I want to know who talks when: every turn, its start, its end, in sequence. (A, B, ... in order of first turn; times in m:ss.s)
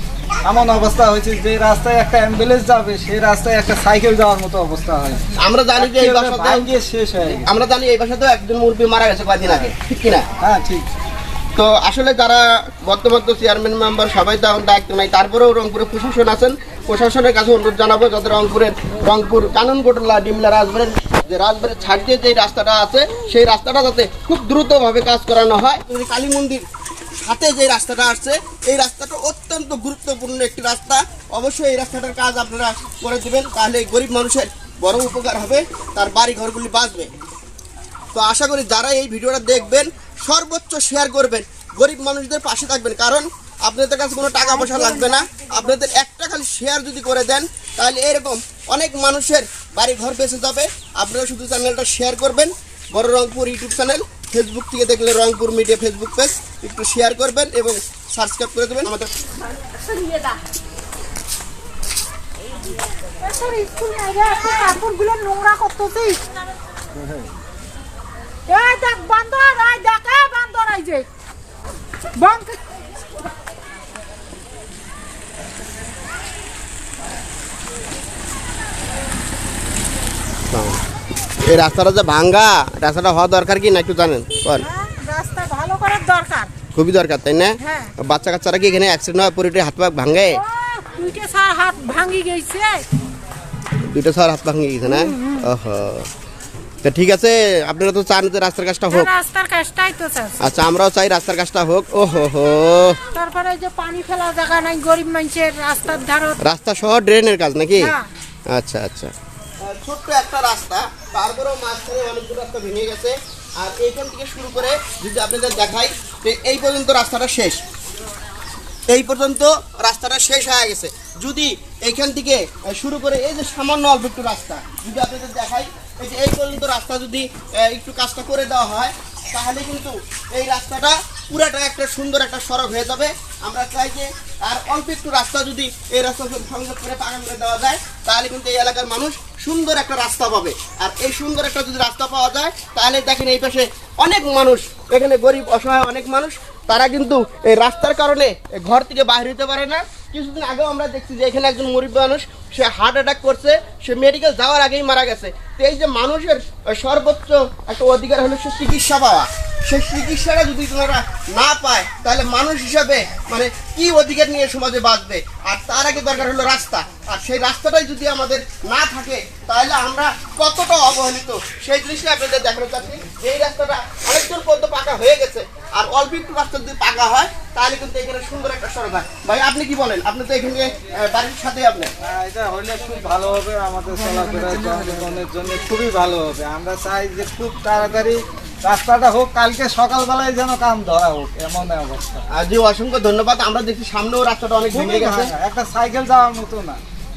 0:00.4-0:05.2 A
0:05.4-0:06.7 B
0:05.8-0:07.5 A
0:07.3-0:10.2 B
0:10.4-0:10.9 A
0:11.6-0:26.6 B
0:27.2-0:37.1 B
0:38.1-0:59.1 B
0:44.6-0:45.2 C
1:03.2-1:06.2 C
1:08.5-1:11.1 C
1:12.2-1:12.6 C
1:20.5-1:20.8 B
1:21.4-1:24.7 B
1:24.6-1:26.5 C
1:26.7-1:30.4 B
1:27.6-1:27.9 C
1:30.3-1:32.8 C
1:33.9-1:36.1 B
1:34.8-1:35.4 C
1:36.8-1:39.1 B
1:38.9-1:40.4 C
1:40.4-1:43.0 B
1:43.1-1:46.4 C
1:46.4-1:47.9 B
1:47.8-1:48.0 C
1:48.5-1:49.1 B
1:49.6-1:57.6 B
1:58.9-3:01.9 B
3:02.0-3:12.2 A
3:12.3-3:15.3 B
3:14.7-3:16.8 A